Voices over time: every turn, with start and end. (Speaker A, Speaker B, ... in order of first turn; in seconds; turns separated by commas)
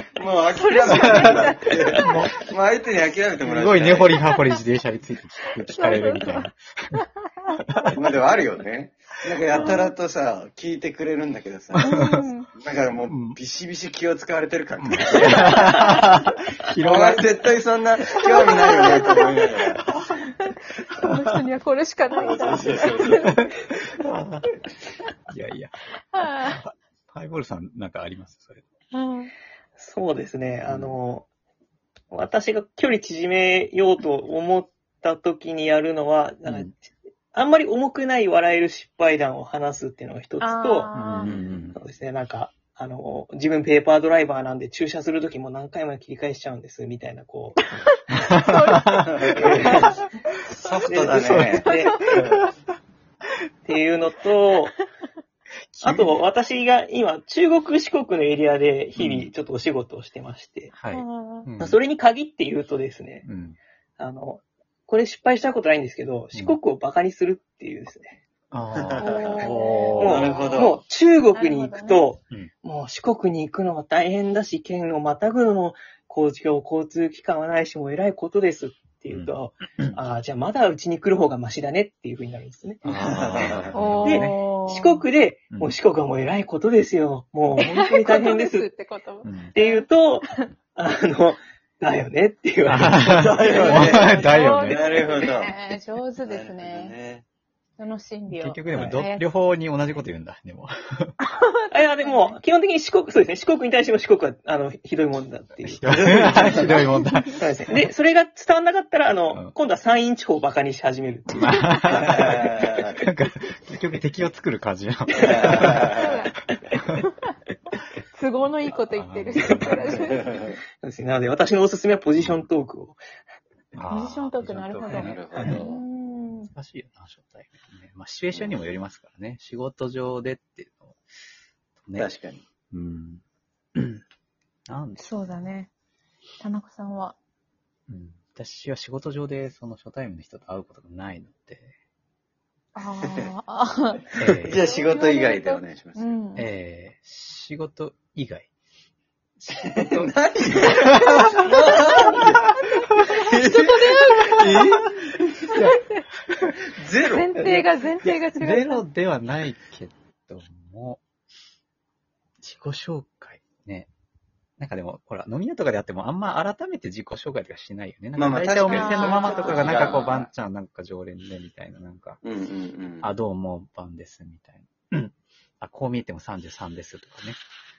Speaker A: 0.2-4.2, Speaker B: 0.6-2.2, Speaker C: 0.9-2.5, Speaker C: 3.4-6.6, Speaker B: 5.7-7.9, Speaker A: 7.9-12.0, Speaker C: 9.5-9.9, Speaker C: 11.8-12.2, Speaker B: 11.8-12.5, Speaker A: 12.6-16.2, Speaker C: 13.1-13.4, Speaker C: 14.8-17.6, Speaker A: 16.8-20.0, Speaker C: 18.1-19.3, Speaker B: 18.4-19.3, Speaker C: 19.9-20.2, Speaker B: 20.4-23.4, Speaker A: 22.2-23.4, Speaker C: 23.2-24.5, Speaker C: 25.3-28.6, Speaker B: 26.1-26.6, Speaker B: 28.9-29.3, Speaker D: 29.8-31.3, Speaker C: 30.7-31.0, Speaker D: 32.1-36.8, Speaker C: 36.5-36.7, Speaker D: 37.3-40.9, Speaker B: 40.4-41.3, Speaker C: 40.9-41.8, Speaker D: 41.7-47.7, Speaker C: 48.2-50.0, Speaker B: 48.3-50.0, Speaker A: 49.2-49.9, Speaker D: 49.3-49.9, Speaker A: 50.5-52.4, Speaker D: 50.9-52.0, Speaker C: 51.3-52.5, Speaker D: 53.6-54.8, Speaker C: 55.7-56.2, Speaker D: 55.8-60.7, Speaker C: 59.0-59.3, Speaker C: 60.7-61.8, Speaker B: 60.9-61.5, Speaker D: 61.6-63.3, Speaker C: 63.2-63.6, Speaker D: 64.0-68.2, Speaker C: 66.3-66.6, Speaker C: 68.5-70.4, Speaker A: 68.8-70.8, Speaker B: 69.0-70.7, Speaker D: 70.0-88.7, Speaker B: 71.3-72.1, Speaker C: 79.1-80.0, Speaker C: 82.8-84.4, Speaker A: 83.0-83.8, Speaker B: 83.8-85.0, Speaker B: 87.6-89.9, Speaker C: 89.2-89.6, Speaker D: 89.5-93.4, Speaker C: 92.7-95.1, Speaker A: 93.0-95.6, Speaker B: 93.4-96.9, Speaker A: 96.2-97.2, Speaker B: 97.8-99.2, Speaker C: 98.3-101.2, Speaker D: 98.7-99.0, Speaker B: 101.2-102.3, Speaker D: 101.7-106.8, Speaker C: 105.8-107.5, Speaker A: 105.9-106.8, Speaker D: 107.3-112.4, Speaker C: 111.3-116.0, Speaker A: 112.0-113.0, Speaker A: 115.2-116.1, Speaker B: 115.5-116.4, Speaker B: 118.1-120.3, Speaker C: 118.9-120.1, Speaker A: 120.0-120.5, Speaker D: 120.8-123.0, Speaker C: 123.7-125.5, Speaker B: 123.9-126.5, Speaker D: 124.9-125.6, Speaker A: 124.9-125.8, Speaker C: 126.4-131.0, Speaker A: 128.3-128.6, Speaker C: 131.8-132.1, Speaker A: 132.0-132.4, Speaker C: 132.7-133.2, Speaker C: 133.8-134.0, Speaker C: 134.7-135.1, Speaker B: 135.0-135.7, Speaker B: 136.4-137.2, Speaker C: 137.9-141.7, Speaker B: 142.8-146.4, Speaker A: 143.0-143.3, Speaker C: 144.2-144.6, Speaker A: 144.3-146.1, Speaker C: 146.4-148.5, Speaker A: 149.5-155.7, Speaker C: 150.8-151.4, Speaker C: 153.0-153.2, Speaker B: 153.5-154.9, Speaker C: 154.3-154.8, Speaker C: 155.5-156.5, Speaker B: 155.5-156.1, Speaker A: 156.6-157.6, Speaker B: 157.1-158.8, Speaker C: 157.4-161.0, Speaker C: 162.4-163.9, Speaker C: 164.6-172.2, Speaker A: 168.2-170.3, Speaker B: 168.7-170.2, Speaker A: 172.2-173.1, Speaker C: 173.0-177.4